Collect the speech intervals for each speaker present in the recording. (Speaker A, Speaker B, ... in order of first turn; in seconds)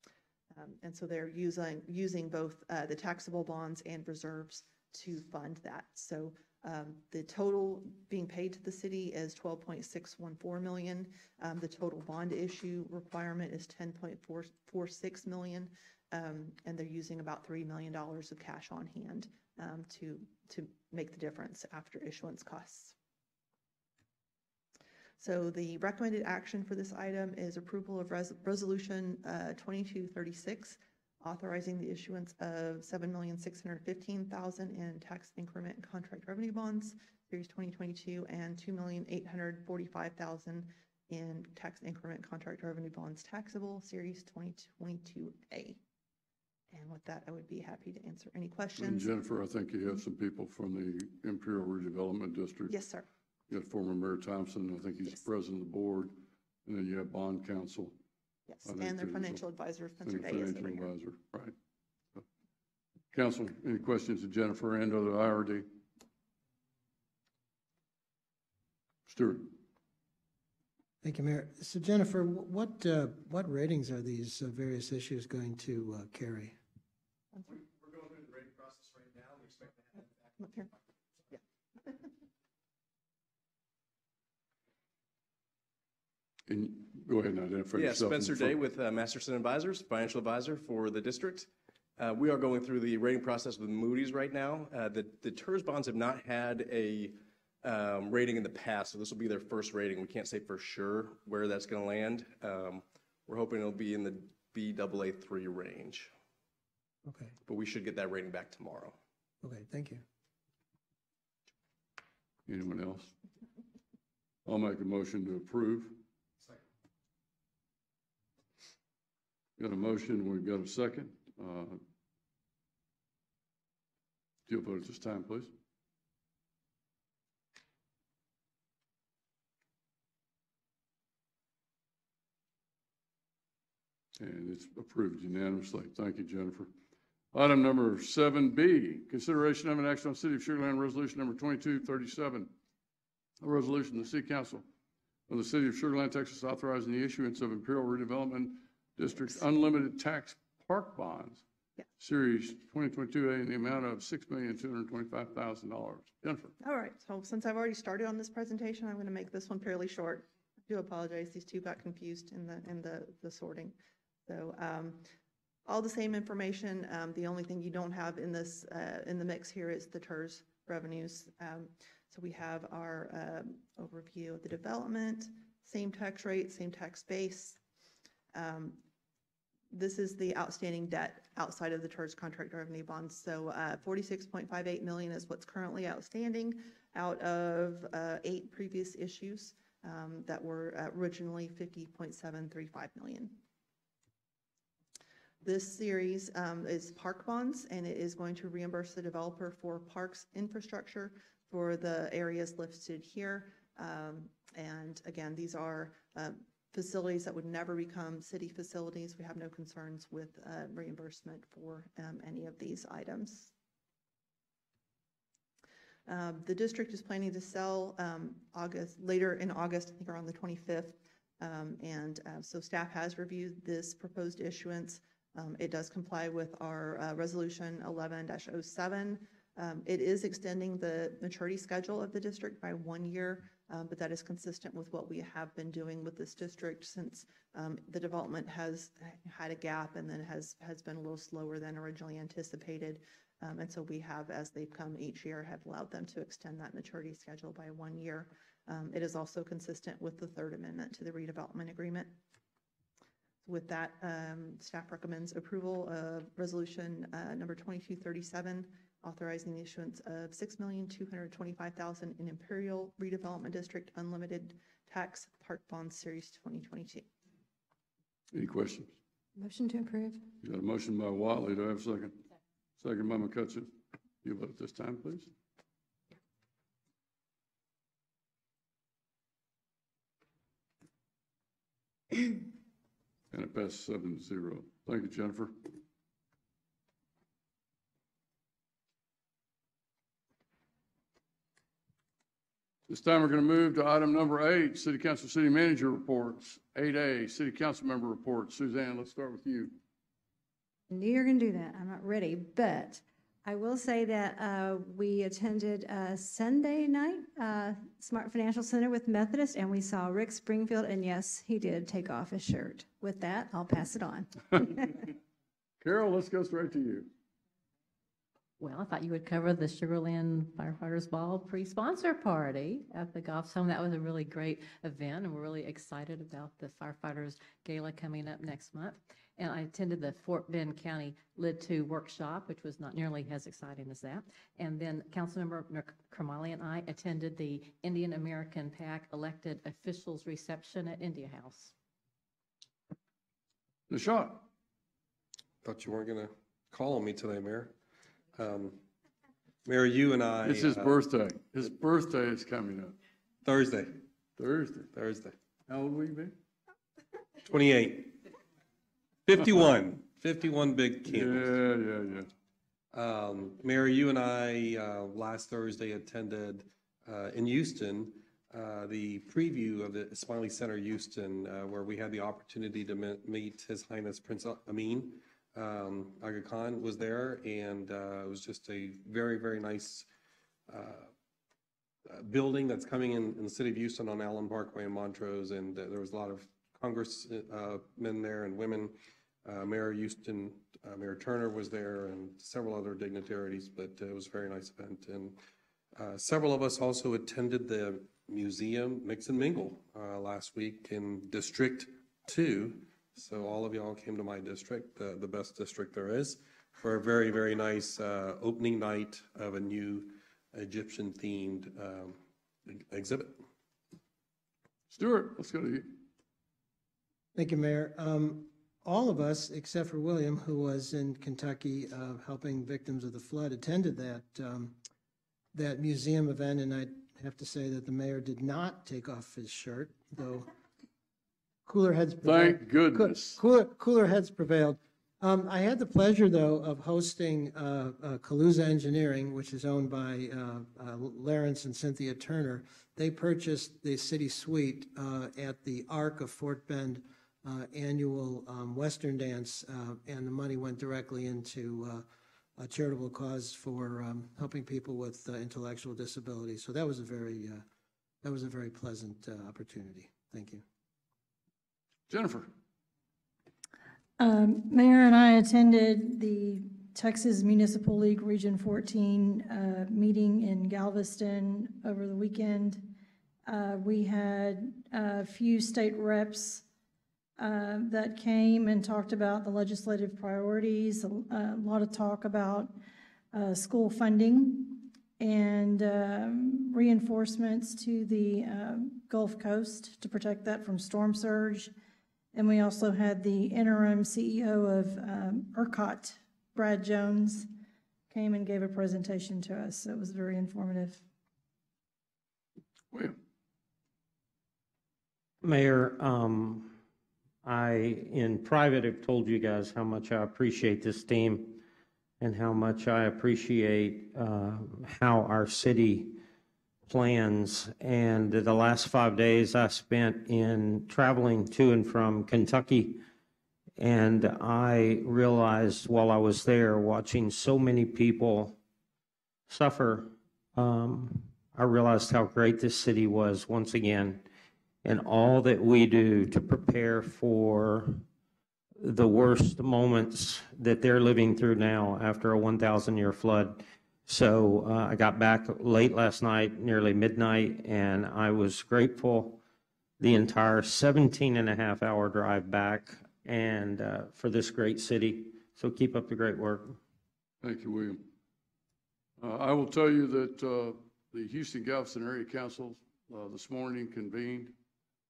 Speaker A: 0.5-22.9, 25.2-45.8, 46.7-49.1, 52.7-53.0, 58.5-60.9, 156.6-163.8, 164.3-165.1, 165.7-177.6, 178.3-178.8, 179.7-193.4, 195.4-213.5, 216.1-252.2, 253.4-267.1
Speaker B: 48.8-52.7, 53.5-56.1, 56.6-57.9, 58.6-59.4, 60.0-61.5, 63.1-65.7, 69.1-69.5, 86.5-88.6, 112.5-113.1, 114.5-116.0, 119.6-121.8, 124.5-125.5, 134.2-136.7, 137.3-142.5, 143.4-144.6, 145.3-151.4, 152.0-156.5, 268.3-268.9, 270.4-272.2, 272.8-273.7, 274.2-275.3, 283.3-285.7, 292.9-299.8, 315.8-317.1, 343.9-344.5, 350.4-352.9, 354.4-354.9, 355.7-356.3, 361.1-362.3, 414.9-415.9, 432.2-433.4, 462.1-462.5, 502.9-503.2, 557.4-558.0, 559.2-564.5
Speaker C: 71.0-76.5, 107.0-107.3, 109.4-110.0, 417.3-424.8, 425.5-430.5, 431.6-452.1, 452.6-457.6, 458.2-460.6
Speaker D: 87.7-106.1, 107.4-109.0
Speaker E: 269.4-270.2, 300.9-315.0
Speaker F: 318.6-341.7
Speaker G: 345.6-347.7, 348.3-348.8, 349.6-351.0, 353.4-354.0, 354.9-355.4, 357.4-358.2, 359.3-361.5, 362.9-380.1, 380.7-381.1, 382.1-395.4, 395.9-413.4
Speaker H: 464.2-476.6, 477.4-482.7, 483.3-491.7, 492.3-497.5, 498.1-501.0
Speaker I: 505.4-506.8, 507.4-511.6, 512.2-516.2, 516.9-523.0, 523.8-528.6, 529.5-534.2, 534.8-538.0, 538.8-549.4, 550.0-556.8